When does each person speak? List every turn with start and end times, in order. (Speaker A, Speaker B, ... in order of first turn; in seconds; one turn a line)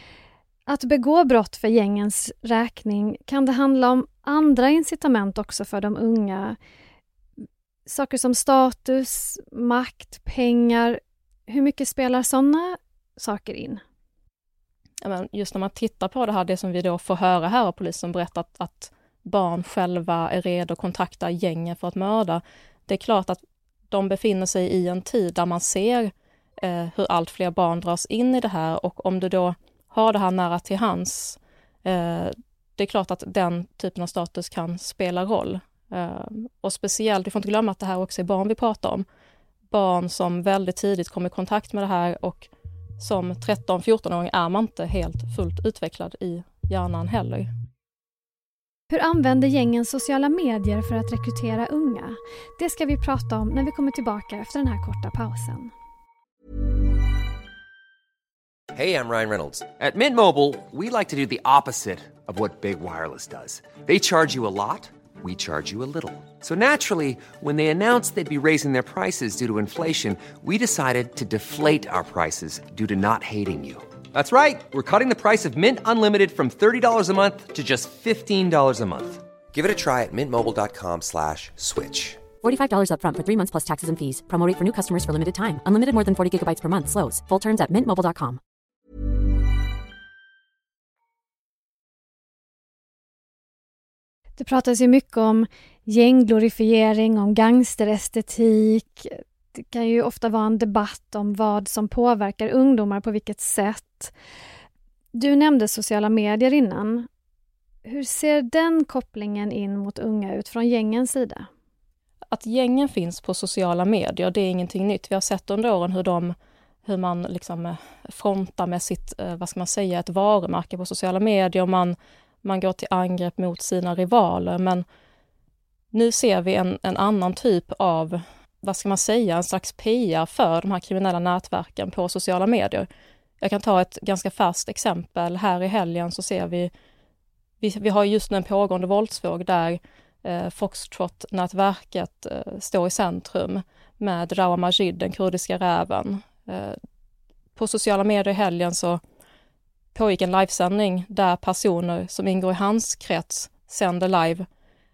Speaker A: 0.7-6.6
Speaker A: 7.9-13.8
Speaker B: 15.0-39.0
Speaker B: 39.7-47.5
Speaker A: 48.9-55.7
Speaker C: 58.7-82.3
Speaker D: 82.4-88.4
Speaker A: 94.4-104.1
Speaker A: 105.1-107.1
Speaker A: 107.8-111.5
Speaker B: 112.3-124.8
Speaker B: 125.9-132.9
Speaker B: 133.4-136.7
Speaker B: 137.6-146.8
Speaker B: 147.6-149.0
Speaker B: 149.9-154.5